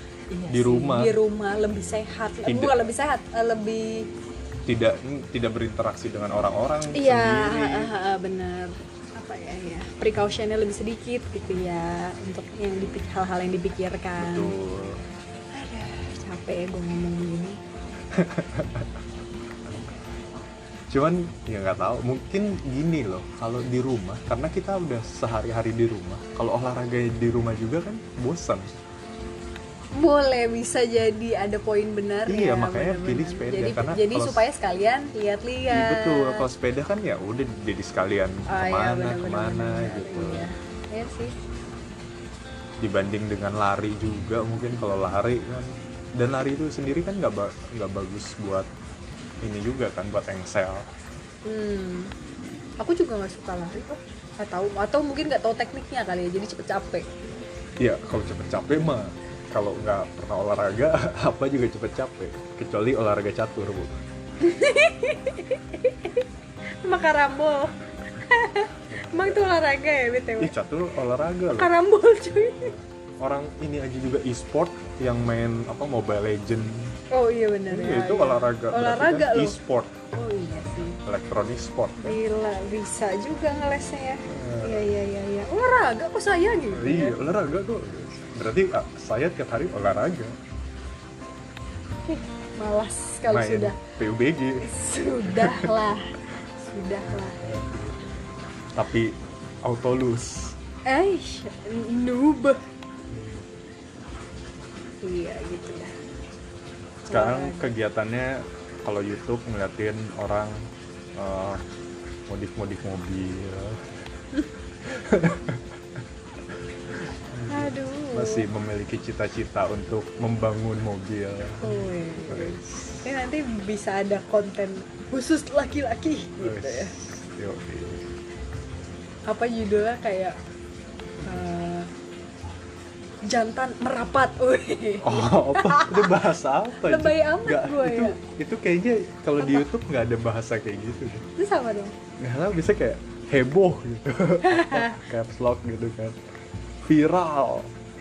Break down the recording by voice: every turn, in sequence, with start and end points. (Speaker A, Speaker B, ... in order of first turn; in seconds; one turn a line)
Speaker A: 0.3-4.1
Speaker B: 0.5-1.2
Speaker B: 2.5-2.8
Speaker B: 4.7-7.9
Speaker A: 6.9-14.5
Speaker B: 14.2-15.0
Speaker A: 15.5-17.6
Speaker B: 18.1-18.9
Speaker B: 20.9-28.7
Speaker A: 30.0-36.5
Speaker B: 32.3-34.5
Speaker B: 35.7-40.5
Speaker A: 38.5-41.3
Speaker B: 42.8-48.7
Speaker B: 49.4-50.9
Speaker A: 51.5-52.1
Speaker A: 52.8-57.1
Speaker B: 57.8-64.0
Speaker A: 64.4-66.3
Speaker A: 66.8-70.5
Speaker B: 68.9-69.5
Speaker B: 70.4-71.7
Speaker A: 71.5-72.7
Speaker B: 72.6-77.0
Speaker A: 77.1-79.6
Speaker B: 77.7-80.0
Speaker A: 80.1-81.0
Speaker B: 81.0-82.2
Speaker A: 82.0-87.2
Speaker B: 84.3-84.9
Speaker B: 86.7-90.4
Speaker A: 92.1-93.8
Speaker B: 93.3-94.7
Speaker A: 94.6-97.6
Speaker B: 95.3-95.8
Speaker B: 97.1-98.1
Speaker B: 98.8-100.6
Speaker A: 100.9-102.6
Speaker B: 103.1-103.5
Speaker A: 105.0-105.9
Speaker A: 107.1-107.7
Speaker B: 107.1-110.6
Speaker B: 111.2-111.6
Speaker B: 112.3-113.8
Speaker B: 114.9-115.7
Speaker B: 117.2-121.7
Speaker A: 117.5-118.5
Speaker A: 121.6-126.9
Speaker B: 122.3-122.7
Speaker B: 126.4-128.1
Speaker A: 129.3-130.4
Speaker A: 131.2-131.9
Speaker A: 133.2-136.2
Speaker B: 135.0-141.2
Speaker A: 136.8-138.2
Speaker A: 139.4-139.7
Speaker A: 141.4-141.9
Speaker B: 142.2-146.2
Speaker A: 144.4-145.0
Speaker B: 146.9-147.7